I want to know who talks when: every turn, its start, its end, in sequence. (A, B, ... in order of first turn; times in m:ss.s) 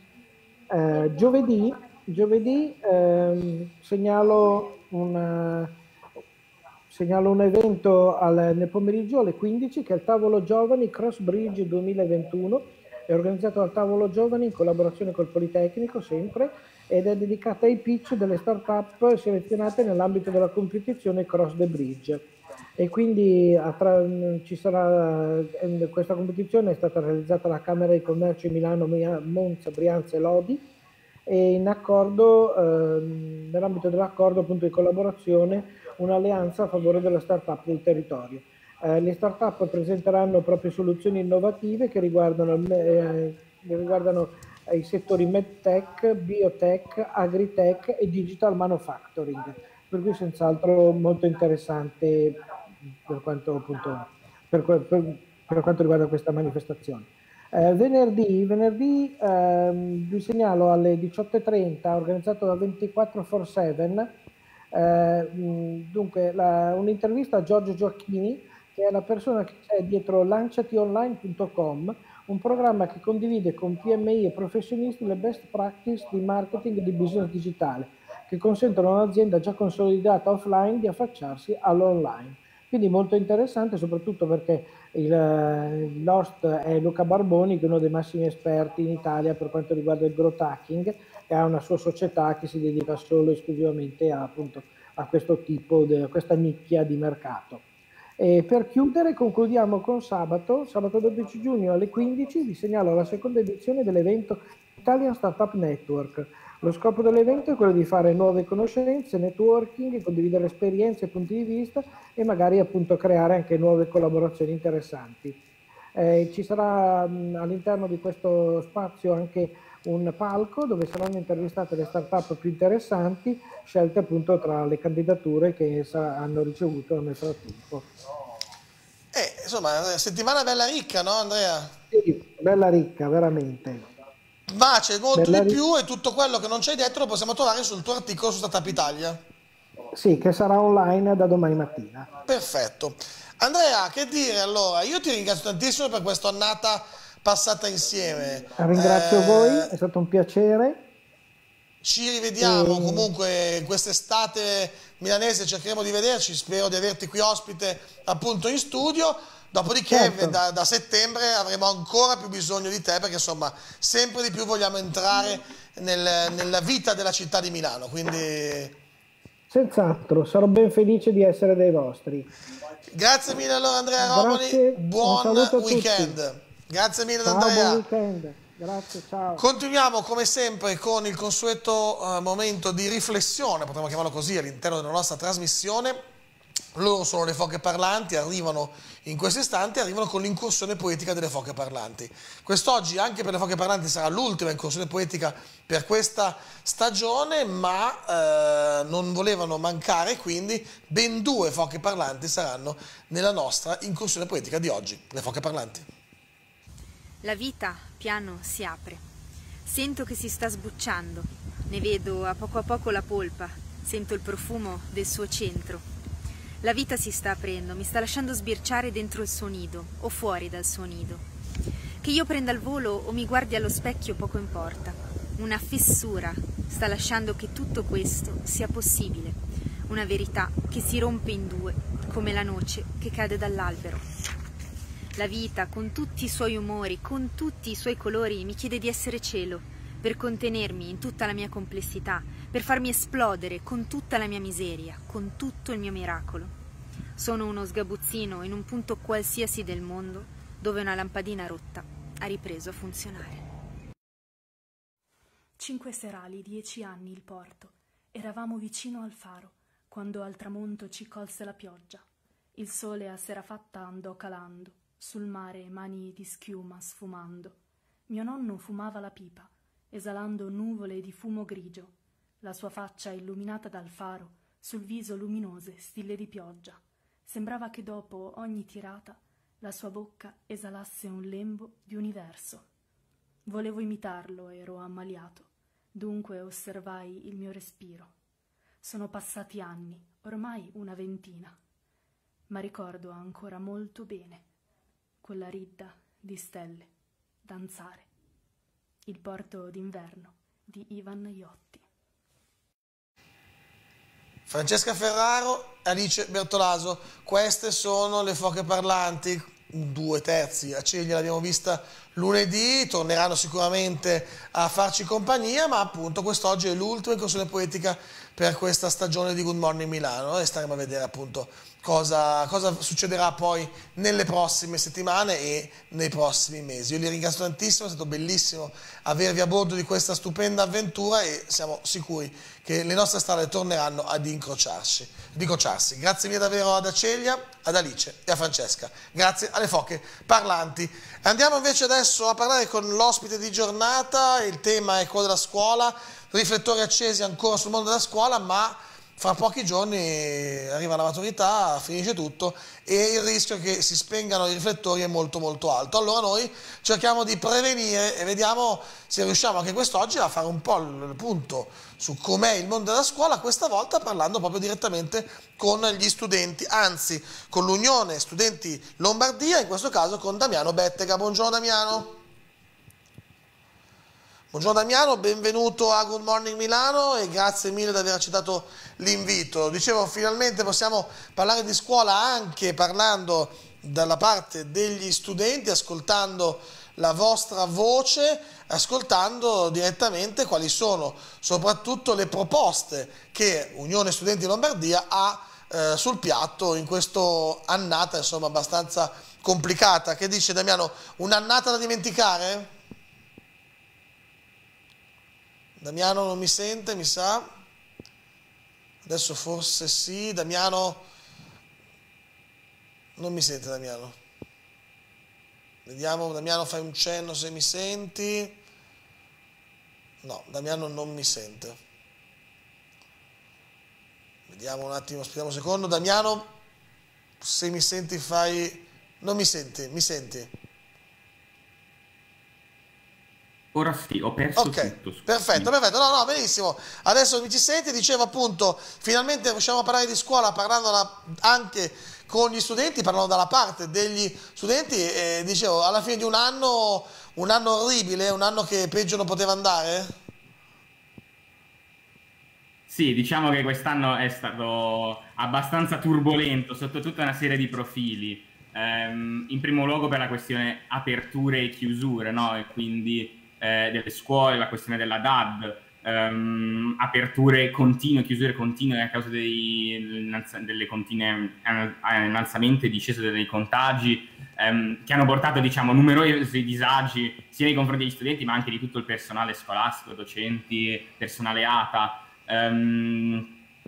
0:00.7-0:05.7 A
0:06.9-0:22.2 A
0:22.8-0:30.6 A
0:31.3-0:52.4 A
0:53.1-1:04.1 A
1:04.7-1:37.6 A
1:38.2-1:55.4 A
1:56.0-2:07.9 A
2:09.1-2:11.7 B
2:11.9-2:13.9 A
2:14.5-2:19.2 B
2:15.2-2:15.6 A
2:19.9-2:22.1 A
2:22.3-2:29.7 B
2:28.6-2:30.8 A
2:31.8-2:48.8 B
2:32.4-2:33.1 A
2:39.9-2:40.4 A
2:49.5-2:52.3 A
2:52.9-2:57.8 B
2:54.0-2:56.2 A
2:57.2-2:59.5 A
2:59.4-3:06.0 B
3:06.8-3:25.9 B
3:27.2-3:29.0 C
3:29.6-3:35.8 C
3:36.6-3:41.2 C
3:42.0-3:54.0 C
3:55.2-4:06.5 C
4:07.2-4:13.4 C
4:15.6-4:22.0 D
4:22.6-4:42.7 D
4:43.5-4:48.1 D
4:48.8-4:51.6 D
4:52.5-4:54.5 D
4:55.2-4:56.9 D
4:57.4-4:58.1 D
4:59.0-5:01.8 D
5:04.5-6:12.2 B
6:14.5-6:42.7 B
6:45.8-6:47.5 B
6:49.0-6:51.1 B
6:53.2-6:54.2 B
6:55.9-6:58.6 B
7:00.2-7:01.8 B
7:04.5-7:06.5 B
7:07.4-7:10.5 B
7:13.7-7:15.7 E
7:14.6-7:30.1 B
7:32.9-8:03.5 E